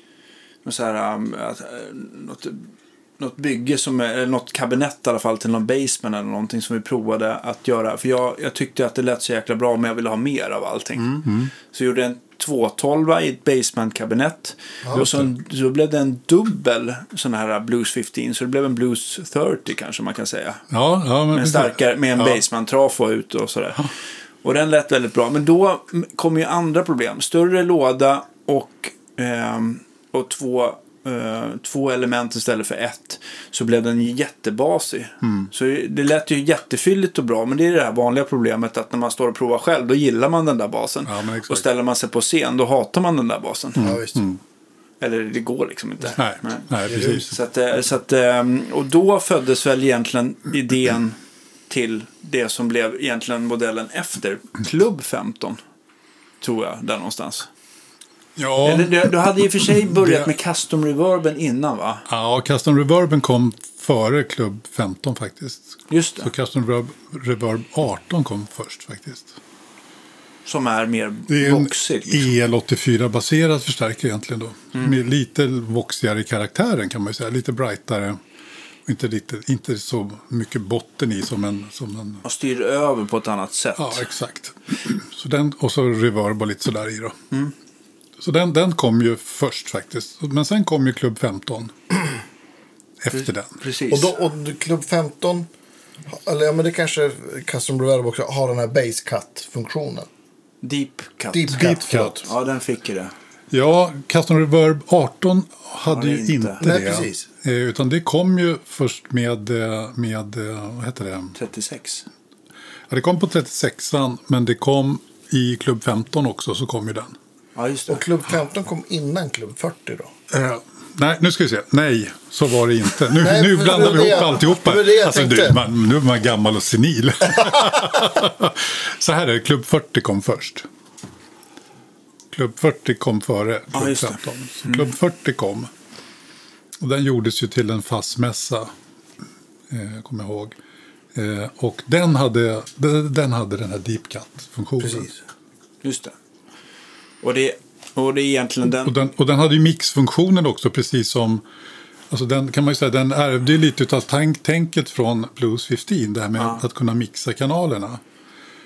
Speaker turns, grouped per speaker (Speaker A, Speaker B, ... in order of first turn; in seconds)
Speaker A: 0.6-20.6, 21.3-43.9, 45.0-51.2, 51.7-55.6, 56.4-57.5, 58.6-62.0, 65.9-66.3, 70.4-72.3, 82.2-84.0, 93.1-94.1, 100.6-103.1, 105.8-106.6, 111.3-112.0, 117.5-118.0, 133.7-134.9, 145.8-146.1, 147.2-148.9, 156.4-156.6
Speaker B: 11.0-11.5, 14.9-15.3, 20.7-22.4, 35.2-35.5, 41.0-41.7, 43.8-44.4, 46.1-47.3, 58.4-60.3, 62.1-69.3, 71.3-78.2, 78.8-82.2, 83.8-87.2, 88.2-91.7, 93.0-93.6, 101.5-102.3, 103.5-111.3, 112.9-117.2, 120.3-130.7, 132.3-135.7, 136.8-138.7, 139.7-140.6, 141.1-145.1, 148.7-151.4, 152.1-158.0
Speaker C: 43.8-44.2, 46.9-47.2, 93.9-95.5, 96.1-100.1, 101.3-102.1, 106.6-107.3, 117.9-120.1, 123.2-125.6, 144.8-145.2